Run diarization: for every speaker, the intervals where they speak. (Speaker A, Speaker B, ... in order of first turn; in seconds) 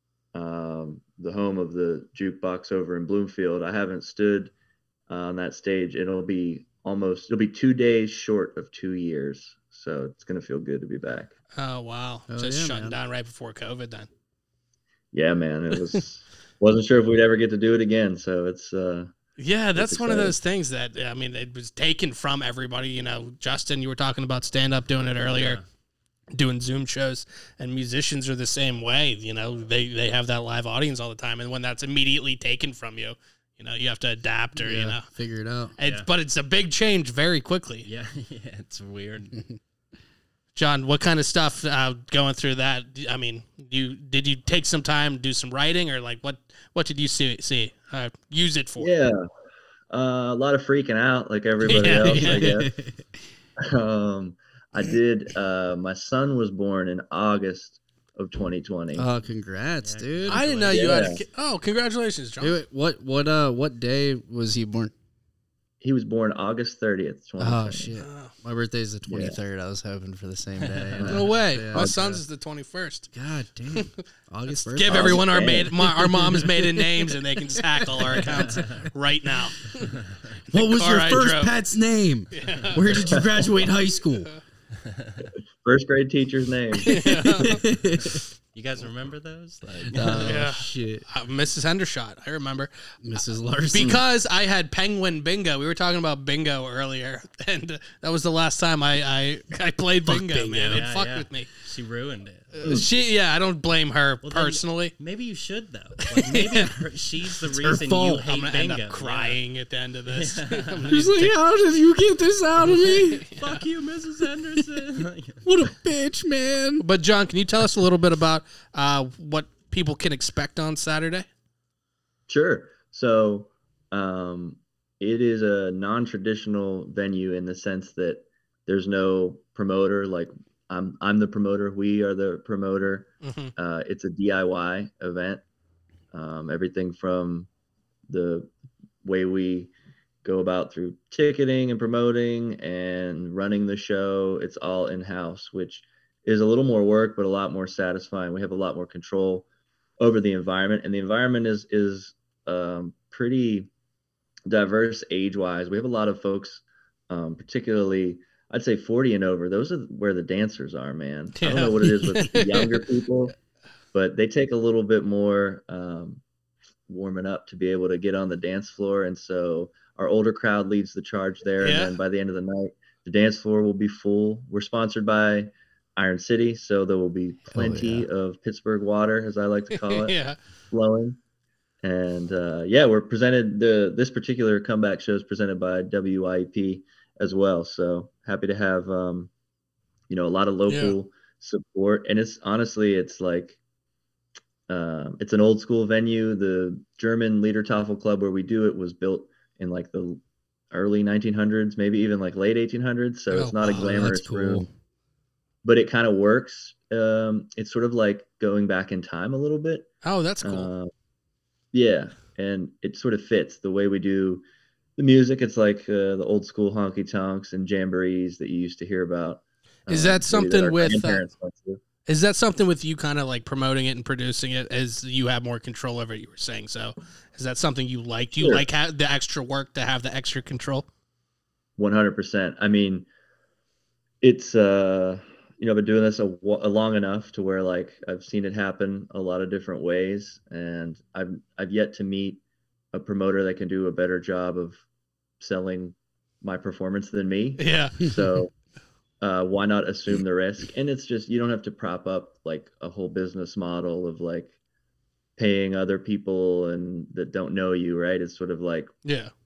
Speaker A: 0.3-4.5, 5.1-11.3, 15.1-19.1, 19.7-20.3, 48.8-49.2, 49.9-52.7, 53.6-59.0, 60.7-61.2, 65.8-67.9, 69.1-69.4, 71.0-72.0, 74.9-75.7, 85.6-86.9, 122.3-135.4, 136.1-137.5, 138.1-138.5, 139.0-139.7, 140.2-149.4, 150.0-153.7, 154.5-163.3, 163.9-166.2, 166.9-180.1, 180.7-181.2, 181.8-189.3, 190.1-193.6, 194.7-204.7, 205.6-209.9, 210.4-210.9, 211.7-214.4, 215.0-221.8, 228.4-228.7, 231.8-233.1, 234.2-242.4, 242.9-244.8, 245.4-248.5, 249.2-254.5, 255.4-258.9
Speaker B: 11.6-14.1, 19.4-25.6, 26.3-35.0, 35.8-37.9, 40.5-48.9, 51.6-52.5, 60.3-62.6, 68.0-68.3, 71.1-73.1, 74.5-79.9, 80.7-81.5, 82.3-83.1, 86.8-87.6, 90.2-92.7, 93.7-101.5, 102.5-104.9, 106.0-106.8, 108.2-111.3, 112.7-113.6, 116.8-121.2, 133.2-133.5, 161.4-162.9, 171.6-171.9, 179.7-180.4, 190.7-190.9, 203.3-203.9, 210.0-210.7, 219.9-221.2, 222.1-230.9, 247.6-248.0, 259.0-259.3
Speaker C: 12.3-12.9, 34.5-35.7, 51.7-53.0, 58.9-60.5, 62.4-64.9, 67.4-71.9, 73.1-78.5, 80.5-84.3, 86.8-88.2, 89.8-91.0, 93.0-94.0, 100.0-100.9, 107.5-108.3, 110.9-113.2, 114.5-116.8, 177.5-178.1, 203.6-204.7
Speaker D: 25.2-25.6, 35.8-36.1, 37.8-39.4, 59.8-61.1, 70.6-71.1, 78.3-78.8, 79.8-80.3, 82.7-83.0, 84.8-85.3, 88.5-90.4, 100.7-102.6, 104.2-109.4, 110.1-111.0, 113.3-115.4